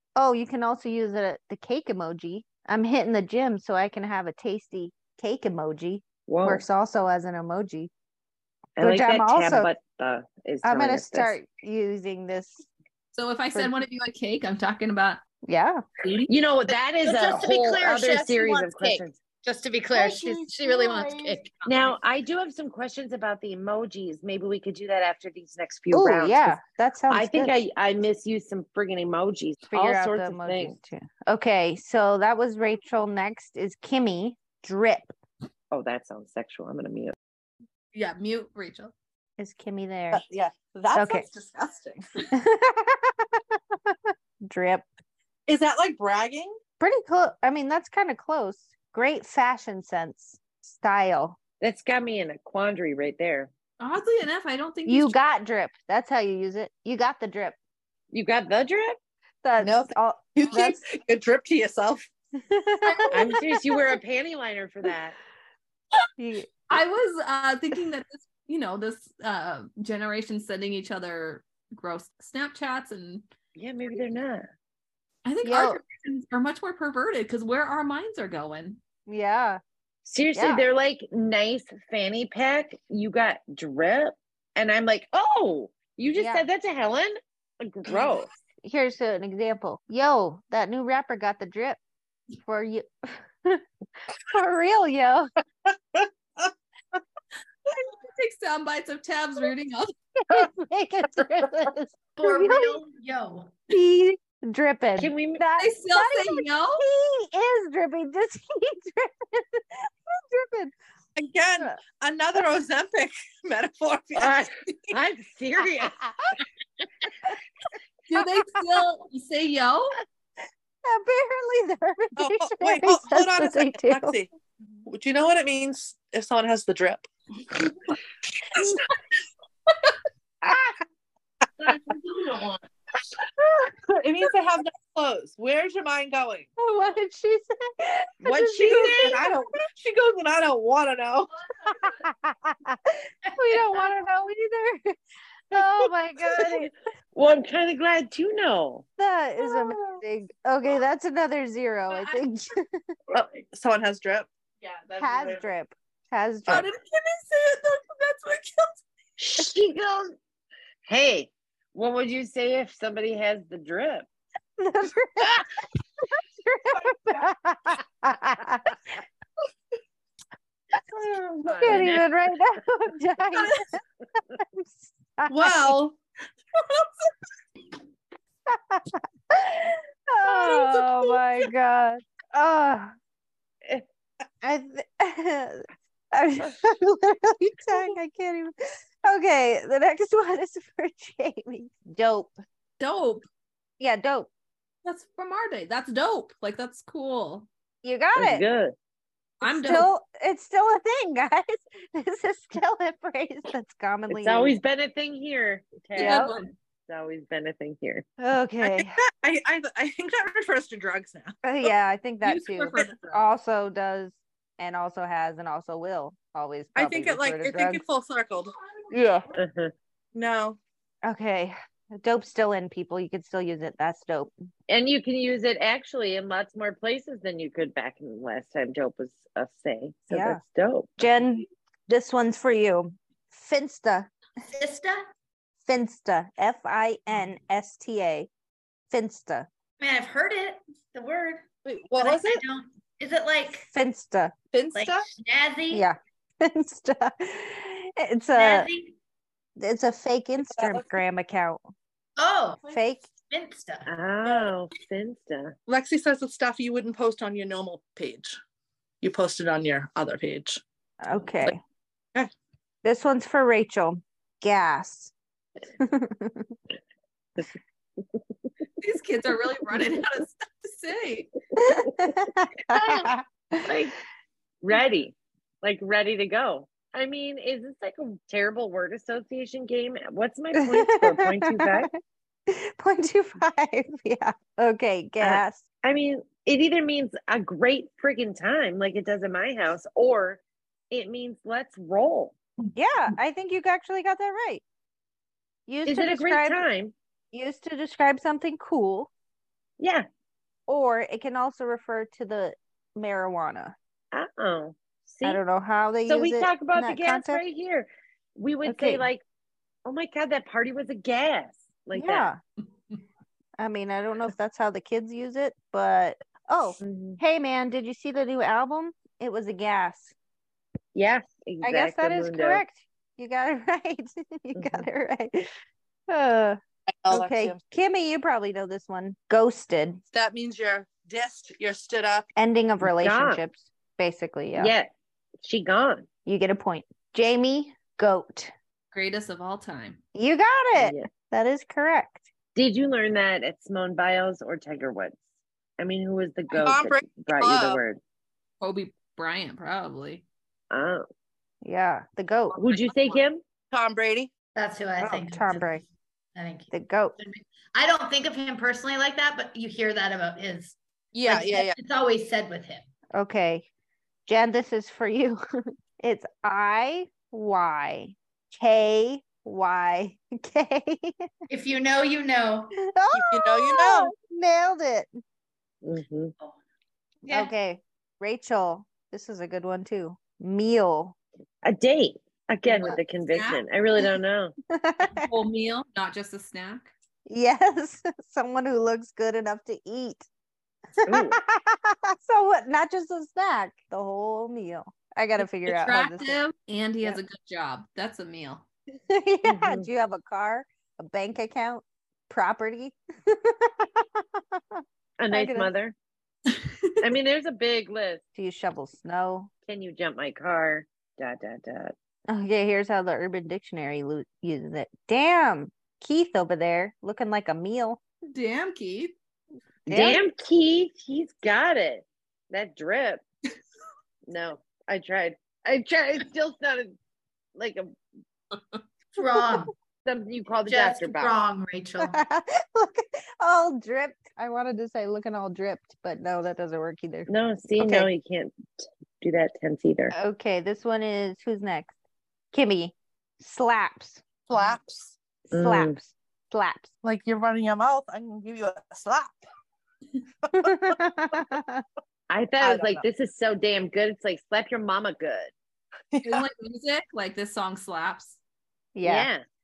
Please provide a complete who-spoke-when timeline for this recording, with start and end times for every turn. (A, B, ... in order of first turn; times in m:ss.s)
0:00.2-0:07.9 A
0:06.3-0:06.6 B
0:08.8-0:11.4 B
0:08.8-0:09.7 A
0:10.6-0:12.7 A
0:13.1-0:15.2 C
0:15.4-0:15.8 A
0:16.0-0:16.3 C
0:16.3-0:19.2 B
0:17.0-0:21.8 D
0:19.9-0:21.4 A
0:21.6-0:26.6 B
0:25.9-0:27.5 A
0:27.1-0:30.8 B
0:29.7-0:35.1 A
0:35.7-0:37.2 B
0:37.9-0:38.9 C
0:39.4-0:40.2 A
0:40.1-0:42.1 E
0:40.9-0:41.3 A
0:42.3-0:44.9 A
0:45.5-0:46.6 E
0:46.8-0:51.4 A
0:51.6-0:53.5 B
0:53.8-0:55.2 C
0:54.8-0:57.6 A
0:58.1-0:59.0 B
0:59.4-1:00.8 A
0:59.6-1:02.1 E
1:02.5-1:03.3 A
1:03.1-1:05.2 B
1:06.2-1:06.5 A
1:06.7-1:13.2 C
1:13.6-1:14.4 B
1:15.2-1:18.8 C
1:15.4-1:15.8 A
1:19.1-1:19.6 A
1:20.0-1:28.3 B
1:20.3-1:20.6 A
1:26.1-1:26.4 A
1:28.6-1:31.8 A
1:32.4-1:33.6 A
1:34.3-1:35.3 A
1:35.9-1:36.5 E
1:37.7-1:39.9 C
1:40.3-1:42.8 A
1:42.2-1:43.6 D
1:43.7-1:50.7 A
1:45.0-1:45.4 B
1:45.6-1:46.8 C
1:51.2-1:54.9 E
1:54.2-1:56.0 B
1:58.1-2:00.0 C
2:00.8-2:04.2 A
2:02.2-2:04.3 E
2:04.8-2:07.1 E
2:11.6-2:12.5 E
2:13.5-2:16.5 E
2:16.6-2:19.4 A
2:18.2-2:21.8 E
2:21.6-2:25.0 A
2:25.5-2:26.7 A
2:27.1-2:28.8 B
2:29.0-2:32.8 A
2:29.5-2:30.0 E
2:33.1-2:35.4 E
2:35.0-2:36.7 A
2:36.5-2:38.8 E
2:39.2-2:40.2 B
2:40.9-2:44.1 B
2:44.6-2:45.5 A
2:46.2-2:48.8 A
2:51.0-2:53.8 A
2:51.4-2:52.0 B
2:54.3-2:55.8 A
2:55.3-2:56.0 E
2:56.6-2:56.9 E
2:58.5-3:02.9 A
3:00.2-3:01.2 E
3:04.4-3:12.3 A
3:12.8-3:13.2 C
3:13.8-3:14.3 A
3:14.8-3:17.5 C
3:17.8-3:18.4 A
3:18.2-3:18.7 B
3:19.4-3:19.9 C
3:19.4-3:24.6 A
3:24.1-3:26.3 B
3:25.9-3:26.5 C
3:26.0-3:26.3 A
3:26.9-3:28.0 B
3:28.2-3:29.0 A
3:28.6-3:31.7 E
3:31.4-3:37.8 A
3:32.2-3:33.0 C
3:32.7-3:33.2 E
3:36.7-3:39.2 E
3:38.9-3:39.2 A
3:39.4-3:39.7 B
3:40.1-3:40.6 E
3:41.0-3:44.3 A
3:44.7-3:51.0 B
3:50.1-3:50.4 A
3:51.0-3:54.1 A
3:54.5-3:55.0 D
3:55.6-3:58.3 A
3:58.9-3:59.5 A
3:59.8-4:01.4 D
4:01.6-4:02.4 E
4:02.0-4:03.7 D
4:03.5-4:04.3 A
4:04.5-4:05.1 E
4:04.7-4:05.8 D
4:05.7-4:08.7 A
4:08.3-4:08.9 D
4:09.6-4:11.6 A
4:10.4-4:10.9 E
4:12.2-4:13.9 D
4:12.7-4:13.1 A
4:13.8-4:15.5 B
4:15.7-4:18.4 E
4:19.0-4:20.6 E
4:21.0-4:21.6 A
4:22.8-4:25.1 A
4:25.8-4:26.5 A
4:28.8-4:31.3 C
4:31.6-4:33.7 A
4:32.7-4:33.1 B
4:33.6-4:34.0 B
4:34.6-4:41.9 B
4:40.5-4:41.9 A
4:42.5-4:45.6 A
4:45.2-4:52.4 B
4:52.7-4:54.6 A
4:55.7-4:56.6 A
4:55.8-4:56.9 B
4:57.3-4:59.1 A
4:59.8-5:00.0 B
5:00.7-5:03.7 A
5:04.1-5:05.4 B
5:05.2-5:07.4 A
5:06.1-5:09.2 B
5:08.6-5:09.1 A
5:09.8-5:12.3 B
5:11.9-5:12.4 A
5:13.6-5:20.1 A
5:16.8-5:17.2 B
5:20.9-5:22.6 B
5:21.6-5:25.5 A
5:24.5-5:24.9 B
5:26.1-5:30.0 A
5:26.9-5:27.6 E
5:30.1-5:32.3 E
5:32.4-5:34.7 A
5:32.8-5:33.4 B
5:34.5-5:34.9 B
5:35.4-5:36.1 B
5:36.2-5:38.5 A
5:38.9-5:40.0 C
5:40.1-5:42.2 A
5:40.7-5:41.1 B
5:42.6-5:45.2 B
5:45.8-5:48.0 B
5:46.5-5:47.8 E
5:48.6-5:50.2 C
5:50.7-5:51.0 B
5:51.6-5:52.6 A
5:52.6-5:53.4 B
5:53.7-5:54.3 E
5:54.5-5:55.8 D
5:55.0-5:55.8 A
5:56.3-6:02.9 D
5:56.7-5:57.2 A
6:01.1-6:01.8 E
6:03.1-6:03.6 A
6:04.2-6:05.4 A
6:06.0-6:11.3 A
6:11.5-6:12.7 D
6:12.8-6:15.2 A
6:13.1-6:14.1 E
6:15.8-6:16.3 B
6:17.2-6:17.5 D
6:17.3-6:21.1 A
6:21.6-6:24.5 B
6:23.3-6:23.6 C
6:24.7-6:25.3 A
6:25.0-6:26.9 C
6:27.2-6:30.2 A
6:31.0-6:36.4 A
6:31.0-6:31.4 B
6:35.4-6:38.6 C
6:39.1-6:45.7 A
6:39.4-6:39.9 B
6:45.2-6:45.9 B
6:47.0-6:48.2 B
6:48.3-6:49.5 A
6:49.7-6:51.9 B
6:52.3-6:58.0 A
6:58.3-6:59.1 C
6:59.9-7:03.2 B
6:59.9-7:00.2 A
7:04.3-7:07.0 B
7:07.6-7:08.0 B
7:09.1-7:09.7 D
7:10.0-7:11.3 B
7:10.7-7:12.2 D
7:12.0-7:18.1 A
7:17.3-7:20.1 B
7:20.1-7:21.9 A
7:22.5-7:24.2 A
7:24.5-7:25.2 E
7:25.5-7:26.0 B
7:25.5-7:26.9 A
7:27.0-7:29.4 E
7:30.4-7:31.0 E
7:30.5-7:31.8 A
7:32.3-7:35.5 B
7:32.6-7:33.0 E
7:36.1-7:36.4 E
7:36.2-7:38.4 C
7:38.9-7:39.3 A
7:39.0-7:39.4 B